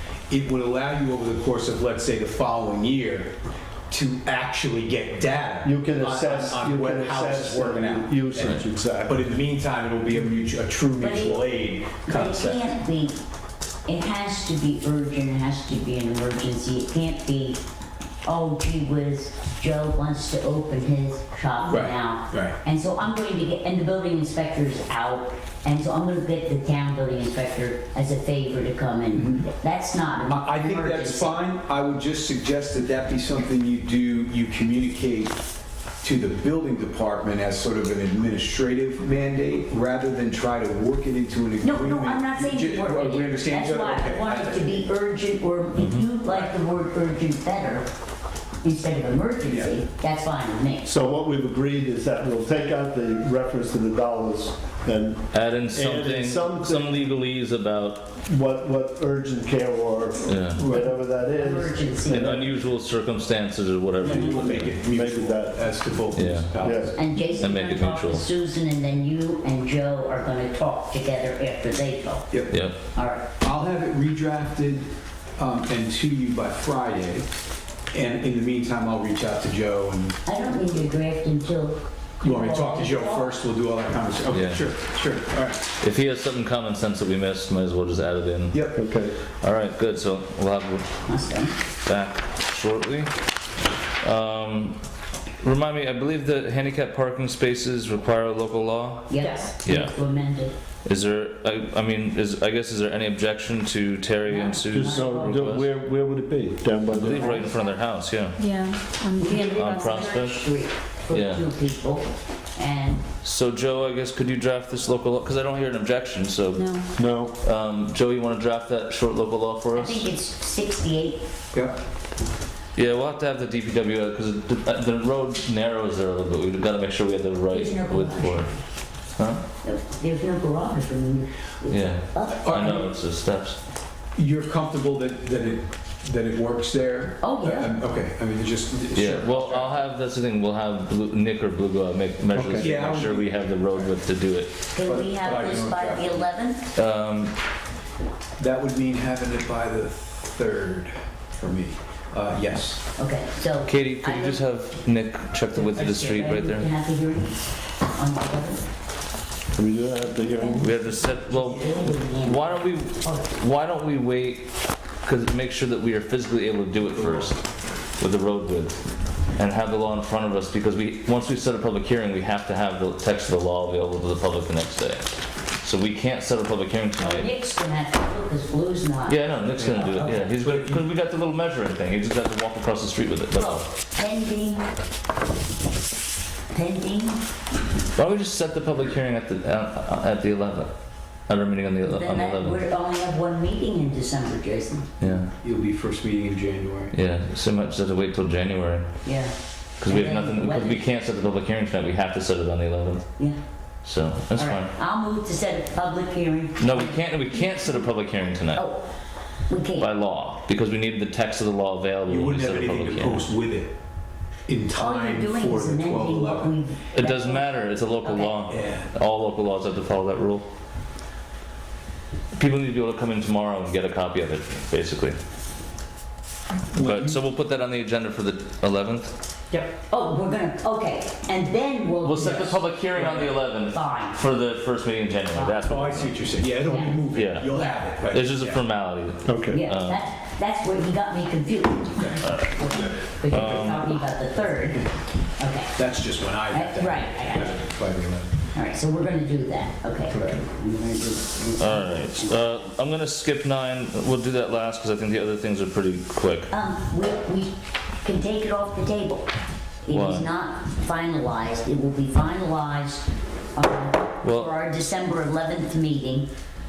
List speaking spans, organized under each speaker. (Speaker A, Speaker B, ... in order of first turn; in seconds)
Speaker A: 0.3-3.3, 3.9-12.7, 21.6-22.6, 29.1-29.5, 30.3-35.4, 36.0-44.9, 46.3-46.5, 49.5-49.8, 64.0-67.1, 72.3-72.6, 73.4-77.3, 77.9-80.2, 82.2-85.7, 88.5-88.8, 121.5-121.8, 132.3-133.0, 134.2-139.8, 142.6-143.9, 144.8-146.3, 148.4-152.9, 166.8-167.3, 195.4-196.9, 212.1-213.7, 214.5-216.6, 218.4-218.9, 226.7-227.2, 235.6-238.6, 245.8-248.4, 250.1-250.4
Speaker B: 5.6-9.2, 50.9-57.1, 58.2-62.5, 64.4-65.7, 66.6-66.9, 88.8-89.2, 104.7-107.5, 117.0-117.4, 142.3-142.7, 159.5-160.8, 239.2-239.6
Speaker C: 11.0-11.5, 12.1-13.2, 13.9-17.6, 18.2-31.4, 41.6-47.9, 48.6-50.9, 60.7-62.5, 64.0-64.4, 67.0-72.3, 72.8-73.3, 80.3-83.4, 91.1-91.5, 99.1-100.5, 104.2-105.5, 107.0-107.8, 109.2-113.1, 119.7-121.2, 127.5-128.5, 129.6-132.5, 137.2-137.8, 144.7-146.6, 153.0-154.5, 155.5-158.6, 160.2-163.3, 177.0-180.8, 183.3-184.6, 186.5-187.2, 191.8-194.9, 199.1-199.3, 199.8-200.9, 204.3-208.0, 208.5-208.8, 209.5-209.9, 214.8-218.4, 229.5-234.2, 235.3-235.7, 236.6-237.9, 239.5-245.8, 246.5-247.7, 248.5-252.6, 256.5-257.5, 258.0-259.3, 259.9-266.3
Speaker D: 45.8-46.1, 55.3-58.1, 60.2-60.6, 62.2-64.8, 66.1-66.5, 67.2-68.2, 72.5-72.8, 84.3-84.7, 85.8-88.7, 89.4-90.9, 91.9-93.1, 94.0-94.8, 95.4-100.0, 100.8-105.7, 106.9-108.4, 109.5-110.4, 111.1-111.5, 113.2-116.7, 117.4-120.0, 122.8-128.5, 129.2-129.4, 131.7-133.6, 138.9-144.6, 146.8-147.3, 153.7-156.7, 160.6-164.5, 165.0-167.4, 168.0-168.8, 169.4-177.3, 179.1-183.7, 187.9-190.7, 191.3-192.6, 195.0-195.3, 196.9-198.9, 199.8-203.1, 203.8-204.7, 206.6-208.6, 209.8-213.3, 216.9-220.5, 222.3-225.2, 226.8-229.1, 232.0-236.5, 237.1-240.0, 243.3-243.9, 251.6-256.5, 259.9-260.3, 264.2-264.5
Speaker E: 99.2-99.6, 108.4-110.3, 116.5-116.9